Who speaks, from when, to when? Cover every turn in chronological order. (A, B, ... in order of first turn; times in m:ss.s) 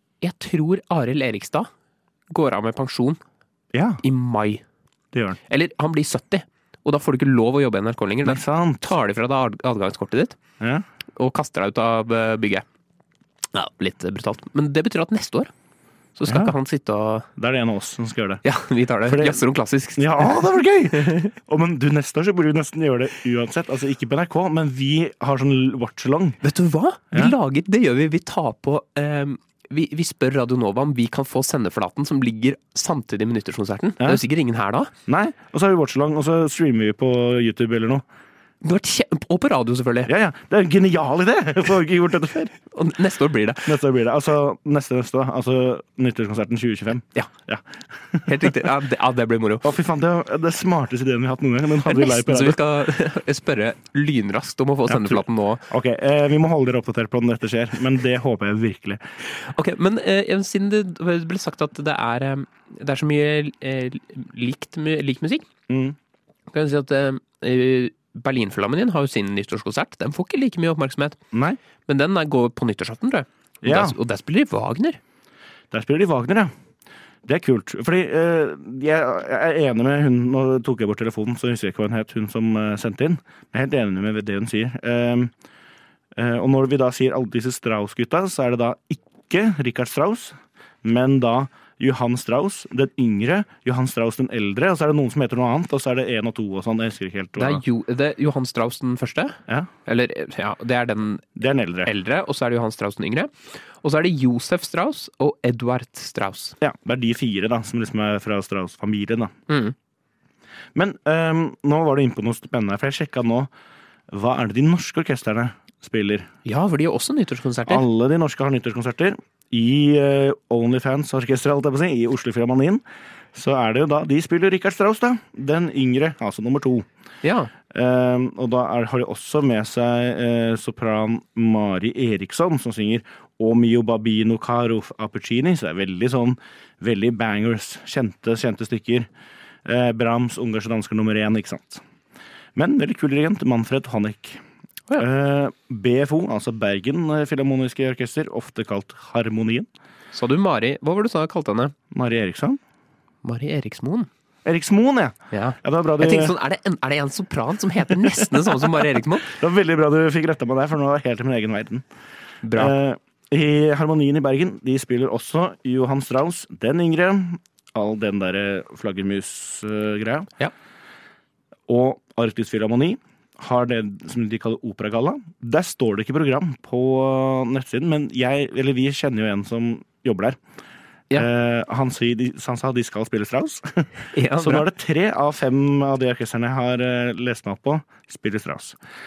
0:00.2-0:01.7 A
0:02.3-0:03.2 A
0:03.7-0:04.0 B
0:04.0-0:04.6 A
0:05.1-0:05.4 B
0:05.5-0:10.4 A
0:08.2-0:08.9 B
0:10.6-0:10.8 B
0:11.2-0:12.6 A
0:13.5-0:15.5 A
0:16.2-0:17.3 A
0:16.3-0:16.5 B
0:17.4-0:18.4 B
0:18.4-0:21.3 A
0:19.0-0:19.4 B
0:20.0-0:26.4 B
0:26.4-0:34.9 A
0:35.1-0:38.0 B
0:38.6-0:40.1 A
0:40.0-0:42.5 B
0:42.7-0:43.7 A
0:43.6-0:48.7 B
0:48.3-0:49.7 A
0:49.6-0:52.6 B
0:51.8-0:55.6 A
0:54.9-0:59.0 B
0:59.2-1:05.5 A
1:05.7-1:06.0 B
1:06.5-1:11.2 A
1:11.3-1:11.6 B
1:11.9-1:15.0 A
1:13.6-1:14.0 B
1:15.7-1:16.5 B
1:17.2-1:25.3 B
1:26.1-1:37.6 B
1:37.4-1:41.3 A
1:41.4-1:41.9 B
1:41.8-1:46.6 A
1:46.6-1:49.3 B
1:49.5-1:49.7 A
1:50.7-1:53.5 B
1:54.1-1:56.3 B
1:56.4-1:57.8 A
1:57.7-2:02.8 B
2:03.3-2:06.9 B
2:07.2-2:07.5 A
2:07.7-2:19.1 B
2:19.6-2:21.8 B
2:22.5-2:24.4 B
2:25.0-2:29.7 B
2:30.1-2:31.7 A
2:31.9-2:32.6 B
2:33.2-2:34.1 A
2:34.4-2:36.3 B
2:35.3-2:39.3 A
2:38.2-2:41.8 B
2:42.4-2:42.7 A
2:42.5-2:50.3 B
2:51.7-3:00.4 B
3:01.1-3:08.8 B
3:04.1-3:04.6 A